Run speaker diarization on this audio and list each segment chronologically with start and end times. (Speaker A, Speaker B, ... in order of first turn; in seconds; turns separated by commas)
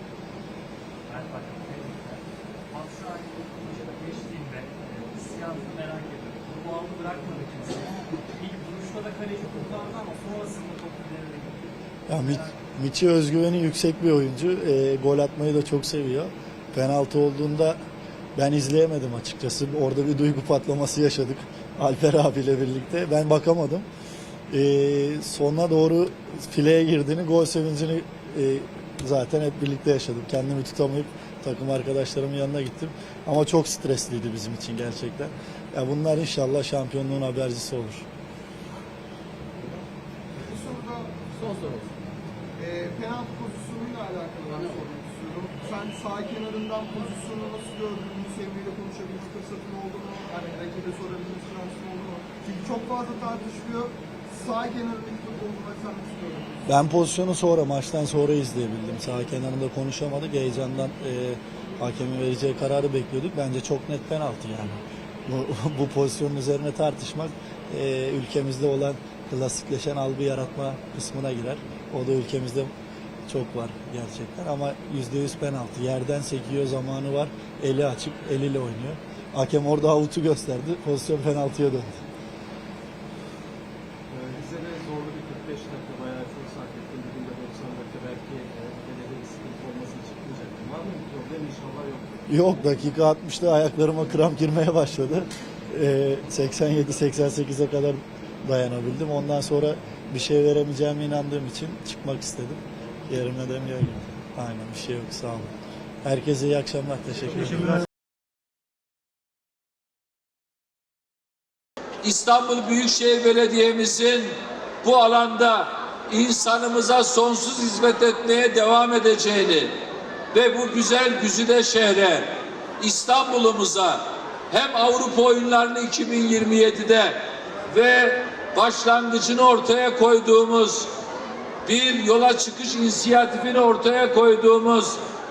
Speaker A: 1.1-11.7, Speaker B: 12.1-17.8, Speaker B: 18.4-23.9, Speaker B: 24.5-38.1, Speaker C: 40.4-41.1, Speaker A: 41.4-41.8, Speaker C: 42.6-56.7, Speaker B: 56.6-72.7, Speaker B: 73.3-82.0, Speaker D: 84.1-92.0, Speaker B: 92.3-105.5, Speaker B: 106.0-107.8, Speaker E: 112.0-119.7, Speaker E: 120.3-127.2, Speaker E: 127.7-130.9, Speaker E: 131.7-135.0